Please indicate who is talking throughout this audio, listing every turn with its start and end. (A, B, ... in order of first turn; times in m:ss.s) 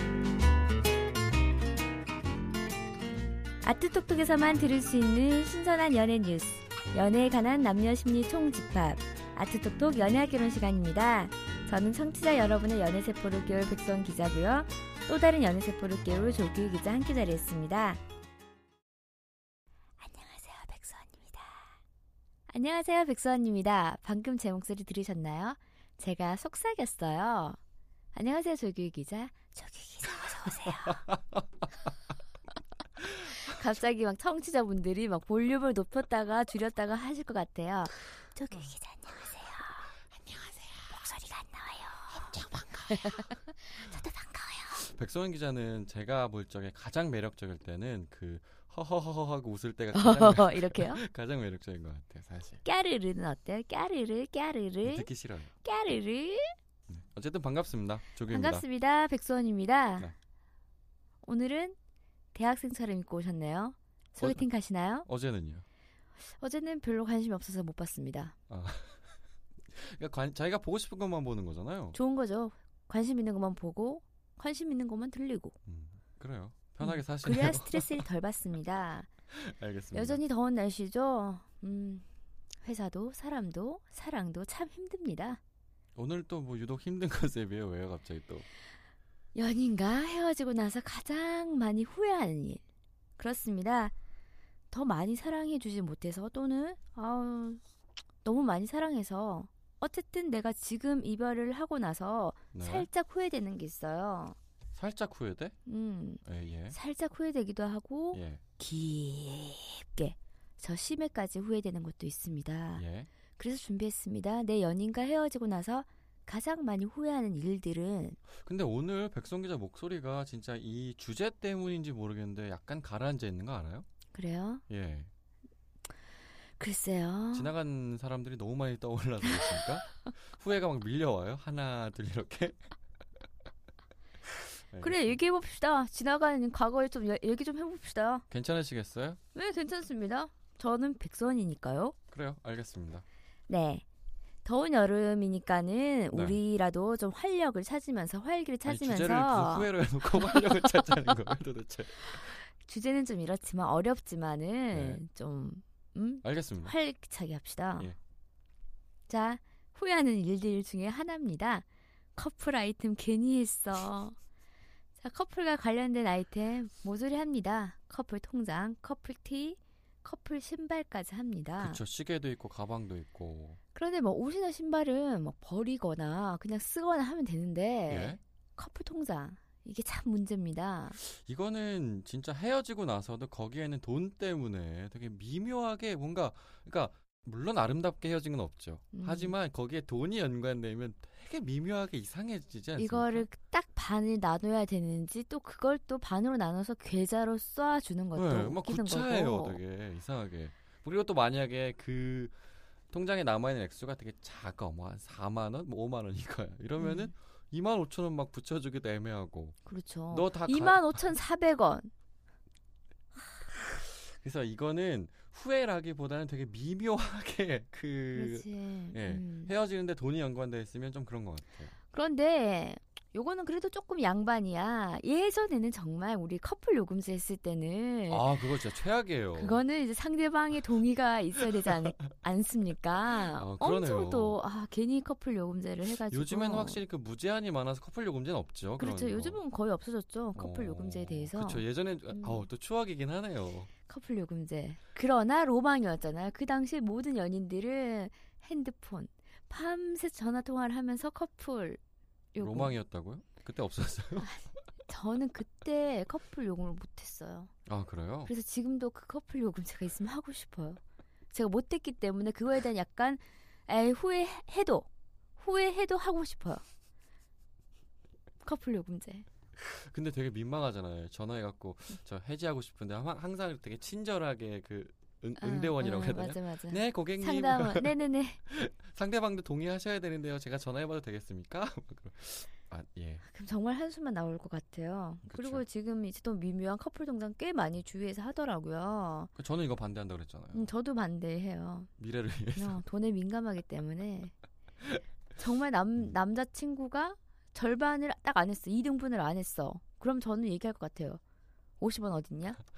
0:03.6-0:18.0 A
0:20.0-0:21.7 A
0:22.5-0:27.6 A
0:28.1-0:31.1 A
0:33.4-0:39.7 A
0:40.8-0:42.4 A
0:42.3-0:43.2 B
0:42.9-0:44.8 A
0:44.8-0:52.6 B
0:49.9-0:51.0 A
0:52.6-0:55.1 A
0:54.8-0:55.5 B
0:55.6-0:56.5 A
0:56.9-0:58.6 B
0:58.3-1:00.1 A
1:01.2-1:01.8 A
1:02.3-1:05.1 A
1:04.2-1:04.5 B
1:05.1-1:05.6 B
1:06.3-1:08.4 A
1:08.5-1:09.1 B
1:09.7-1:12.0 B
1:11.9-1:15.6 A
1:15.6-1:18.0 B
1:16.8-1:19.1 A
1:19.3-1:20.2 B
1:19.9-1:22.1 A
1:22.6-1:25.4 A
1:26.0-1:28.4 B
1:29.4-1:32.6 A
1:33.2-1:33.9 A
1:34.7-1:37.6 A
1:38.2-1:44.4 A
1:42.5-1:42.9 B
1:44.8-1:45.6 B
1:45.7-1:46.2 A
1:46.2-1:46.8 B
1:46.7-1:52.8 A
1:48.1-1:48.4 B
1:52.8-1:53.1 B
1:53.4-1:58.2 A
1:58.4-2:03.9 B
2:04.1-2:04.6 A
2:04.7-2:05.1 B
2:06.6-2:07.5 A
2:07.3-2:12.6 B
2:14.4-2:15.2 B
2:14.8-2:18.2 A
2:18.3-2:19.2 B
2:19.4-2:22.0 A
2:22.1-2:23.0 B
2:23.5-2:23.8 A
2:24.4-2:30.4 A
2:26.1-2:26.4 B
2:28.7-2:32.4 B
2:32.1-2:37.9 A
2:34.7-2:35.0 B
2:36.2-2:36.7 B
2:39.1-2:44.2 A
2:45.0-2:51.8 A
2:51.6-2:53.6 B
2:53.8-3:01.0 A
2:57.9-2:58.2 B
3:01.0-3:13.3 B
3:08.9-3:09.4 A
3:12.8-3:19.6 A
3:18.2-3:22.4 B
3:22.9-3:29.6 B
3:26.8-3:27.1 A
3:29.7-3:31.9 A
3:30.1-3:30.9 B
3:33.5-3:41.7 B
3:38.1-3:39.5 A
3:41.9-3:48.3 A
3:48.1-3:49.6 B
3:49.4-3:56.8 A
3:53.3-3:54.4 B
3:56.1-3:59.4 B
3:58.8-4:02.5 A
4:00.4-4:03.7 B
4:03.9-4:11.8 A
4:12.3-4:12.7 A
4:12.4-4:14.3 B
4:14.2-4:17.5 A
4:17.7-4:18.3 B
4:18.3-4:20.8 A
4:21.3-4:26.6 A
4:28.4-4:29.3 A
4:29.6-4:43.2 B
4:35.4-4:38.4 A
4:43.2-4:49.3 A
4:45.3-4:45.6 B
4:49.4-4:50.7 B
4:50.5-4:51.9 A
4:52.0-4:52.8 B
4:52.6-4:54.3 A
4:55.4-5:01.2 A
5:01.8-5:02.6 A